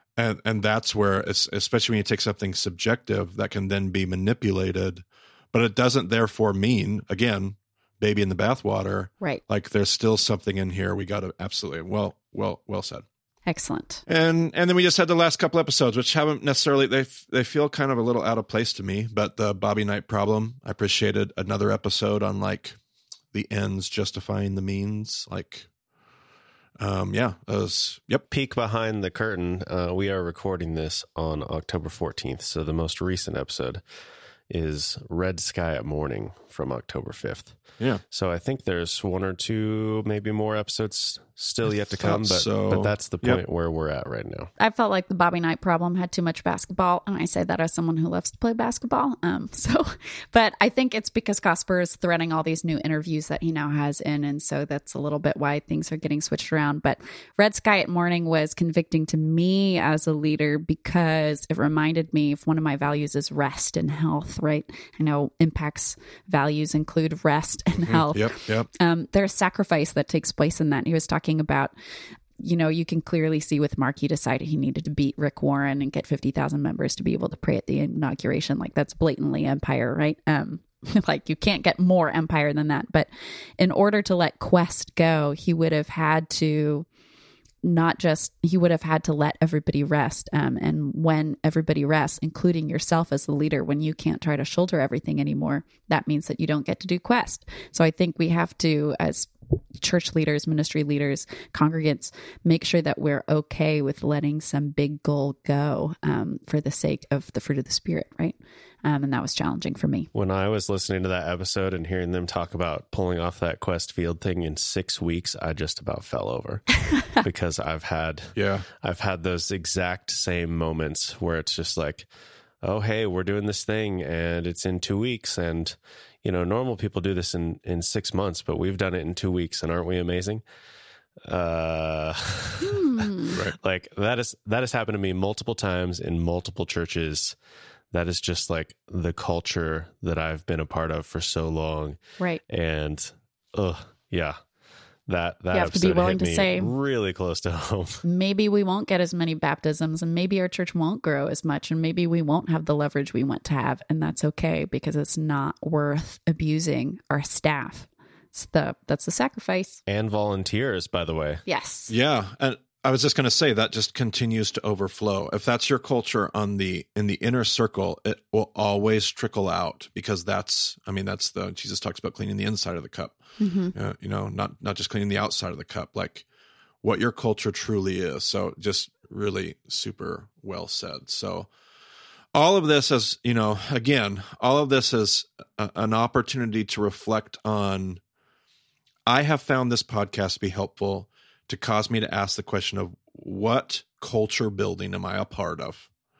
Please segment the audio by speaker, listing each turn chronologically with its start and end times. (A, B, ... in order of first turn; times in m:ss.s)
0:00.2-0:13.0 A
0:13.5-0:14.0 B
0:14.1-0:22.8 A
0:23.3-0:25.7 A
0:26.8-0:28.2 A
0:28.3-0:33.8 C
0:34.5-0:37.6 C
0:38.1-0:44.5 C
0:42.0-0:43.4 A
0:44.6-1:11.7 B
1:07.8-1:08.7 A
1:12.4-1:26.8 B
1:27.6-1:50.1 B
1:50.1-2:02.1 C
1:58.3-1:58.6 A
2:02.6-2:10.4 C
2:11.2-2:17.3 C
2:12.6-2:13.4 B
2:17.9-2:24.4 C
2:25.1-2:28.0 C
2:25.5-2:26.7 B
2:28.0-2:39.8 B
2:39.9-2:41.4 C
2:41.5-2:41.9 B
2:41.9-2:53.2 A
2:53.4-2:53.7 B
2:53.7-2:56.2 A
2:56.8-3:01.5 A
3:02.3-3:08.0 A
3:09.1-3:15.9 A